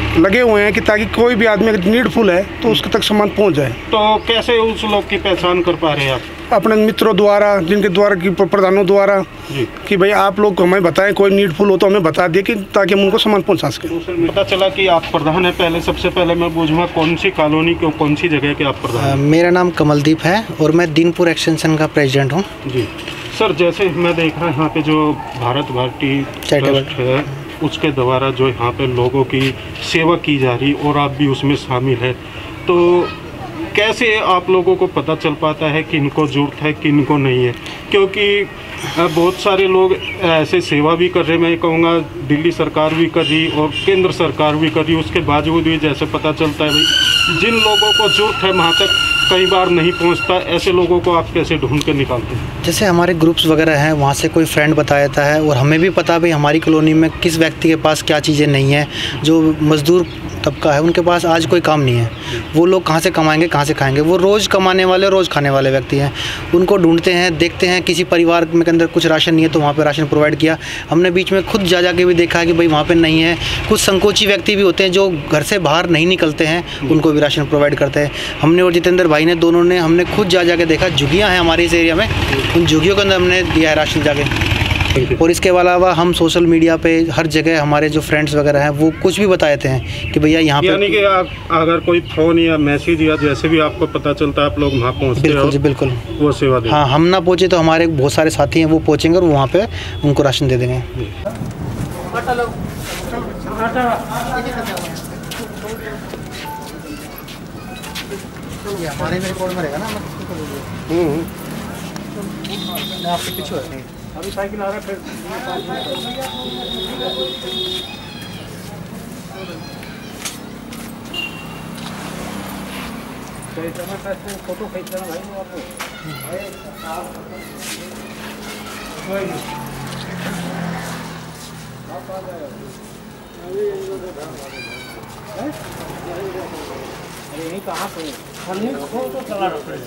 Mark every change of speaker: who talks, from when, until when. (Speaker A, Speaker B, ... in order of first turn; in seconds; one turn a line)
Speaker A: 0.1-3.8
Speaker B: 3.9-6.3
Speaker A: 6.5-13.9
Speaker B: 14.0-19.3
Speaker C: 18.9-22.4
Speaker B: 22.6-33.1
Speaker C: 26.5-26.9
Speaker B: 33.7-52.4
Speaker C: 52.6-84.3
Speaker C: 84.9-91.0
Speaker B: 90.6-95.6
Speaker C: 95.2-96.0
Speaker B: 96.2-96.8
Speaker C: 96.7-100.9
Speaker C: 104.3-104.8
Speaker C: 108.7-110.6
Speaker B: 110.9-111.2
Speaker C: 113.0-113.9